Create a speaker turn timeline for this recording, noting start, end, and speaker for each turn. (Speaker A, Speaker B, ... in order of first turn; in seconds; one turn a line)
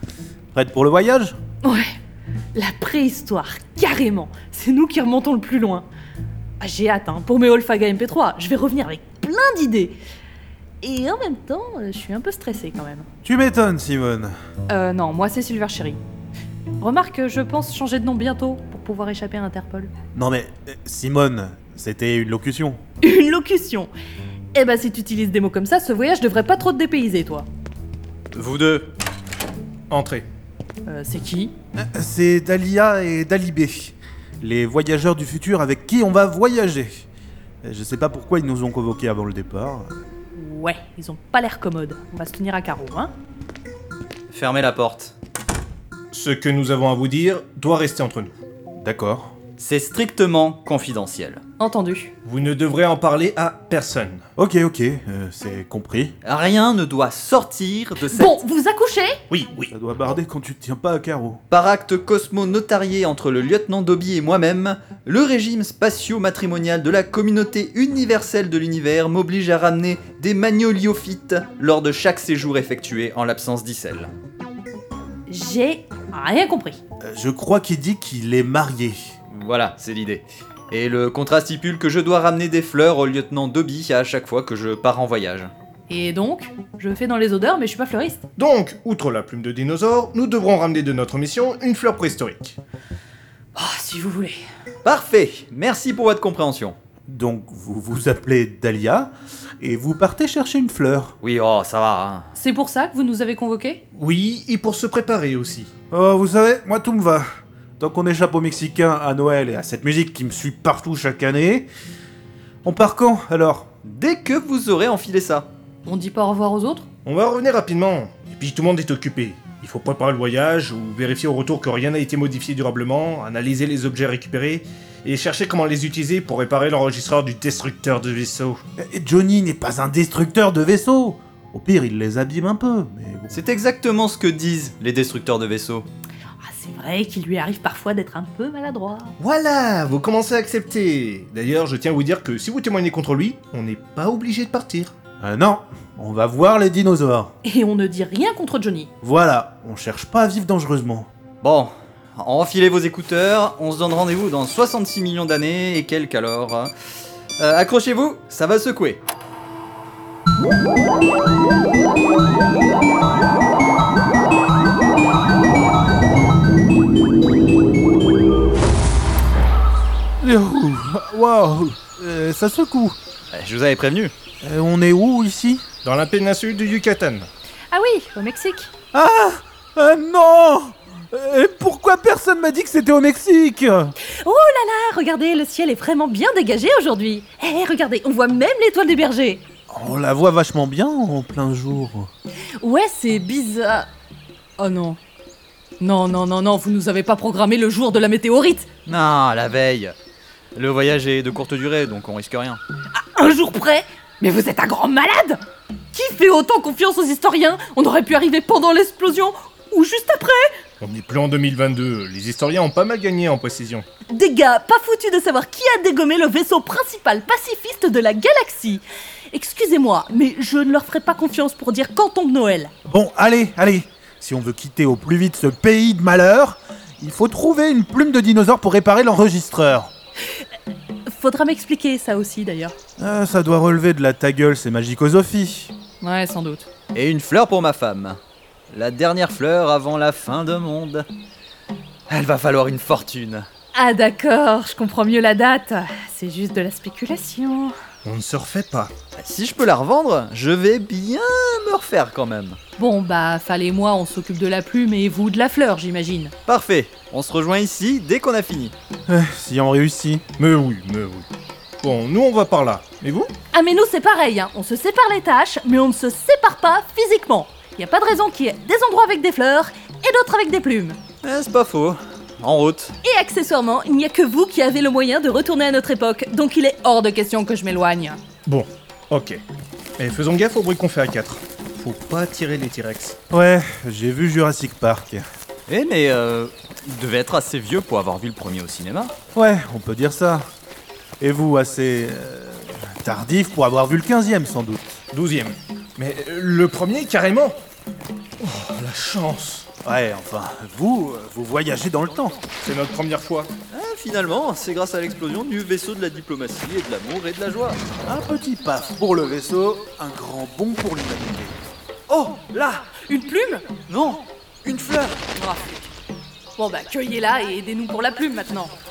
Speaker A: 0.5-1.4
Speaker B: 1.6-1.9
Speaker B: 2.5-5.9
Speaker B: 6.6-10.0
Speaker B: 10.8-13.1
Speaker A: 13.2-14.3
Speaker B: 14.7-16.0
Speaker B: 16.8-19.9
Speaker A: 20.1-22.8
Speaker B: 23.0-23.9
Speaker B: 24.5-27.5
Speaker C: 28.3-28.9
Speaker D: 29.9-30.3
Speaker B: 30.9-31.5
Speaker A: 31.7-37.1
Speaker A: 37.6-39.9
Speaker B: 40.3-43.1
Speaker C: 44.3-45.1
Speaker D: 46.1-48.3
Speaker A: 48.8-49.3
Speaker C: 49.6-51.4
Speaker B: 51.6-52.1
Speaker D: 52.2-54.2
Speaker A: 54.4-56.1
Speaker C: 56.2-58.4
Speaker B: 58.1-59.2
Speaker D: 59.3-59.7
Speaker A: 59.7-61.4
Speaker C: 61.5-74.1
Speaker B: 75.3-76.8
Speaker A: 77.0-79.0
Speaker C: 79.3-85.5
Speaker B: 85.9-88.2
Speaker D: 88.4-92.6
Speaker B: 93.5-94.4
Speaker C: 94.8-96.8
Speaker A: 97.1-101.1
Speaker C: 101.2-102.3
Speaker B: 102.3-103.8
Speaker D: 103.9-105.7
Speaker A: 105.9-107.2
Speaker A: 107.8-111.7
Speaker A: 112.6-113.7
Speaker C: 113.8-115.5
Speaker B: 115.8-116.8
Speaker D: 117.0-128.6
Speaker A: 128.8-133.4
Speaker C: 133.3-135.8
Speaker B: 136.4-139.1
Speaker D: 139.2-144.9
Speaker A: 145.2-147.3
Speaker B: 147.4-148.9
Speaker A: 149.0-151.1
Speaker C: 151.4-156.7
Speaker C: 157.4-159.0
Speaker A: 170.2-172.9
Speaker C: 173.3-174.1
Speaker A: 174.4-175.6
Speaker D: 175.8-177.3
Speaker B: 177.7-178.7
Speaker A: 178.9-183.9
Speaker B: 184.0-189.4
Speaker A: 189.7-192.1
Speaker B: 192.6-193.9
Speaker B: 194.6-195.0
Speaker B: 195.8-198.7
Speaker C: 198.8-199.9
Speaker C: 200.5-202.6
Speaker B: 202.9-210.5
Speaker D: 210.8-213.8
Speaker B: 214.1-222.7
Speaker A: 222.8-229.9
Speaker B: 231.1-232.7
Speaker A: 233.0-235.7
Speaker B: 236.0-236.7
Speaker C: 236.9-241.1
Speaker C: 242.1-243.5
Speaker B: 243.7-247.7
Speaker D: 248.0-248.9
Speaker C: 249.2-252.6
Speaker B: 252.8-256.3
Speaker C: 256.4-258.7
Speaker A: 259.1-260.2
Speaker D: 260.4-261.3
Speaker D: 261.8-263.3
Speaker B: 263.5-271.0
Speaker C: 271.2-272.9
Speaker B: 273.0-278.2
Speaker D: 278.4-279.4
Speaker D: 280.0-283.2
Speaker A: 283.3-285.2
Speaker C: 285.7-289.1
Speaker A: 289.3-290.4
Speaker A: 291.2-295.0
Speaker D: 295.1-297.6
Speaker D: 298.4-299.6
Speaker A: 299.8-302.4
Speaker D: 302.6-303.5
Speaker C: 303.7-307.8
Speaker A: 308.0-311.6
Speaker C: 312.1-312.9
Speaker B: 312.9-313.7
Speaker C: 313.9-315.4
Speaker B: 315.4-315.8
Speaker B: 316.6-318.7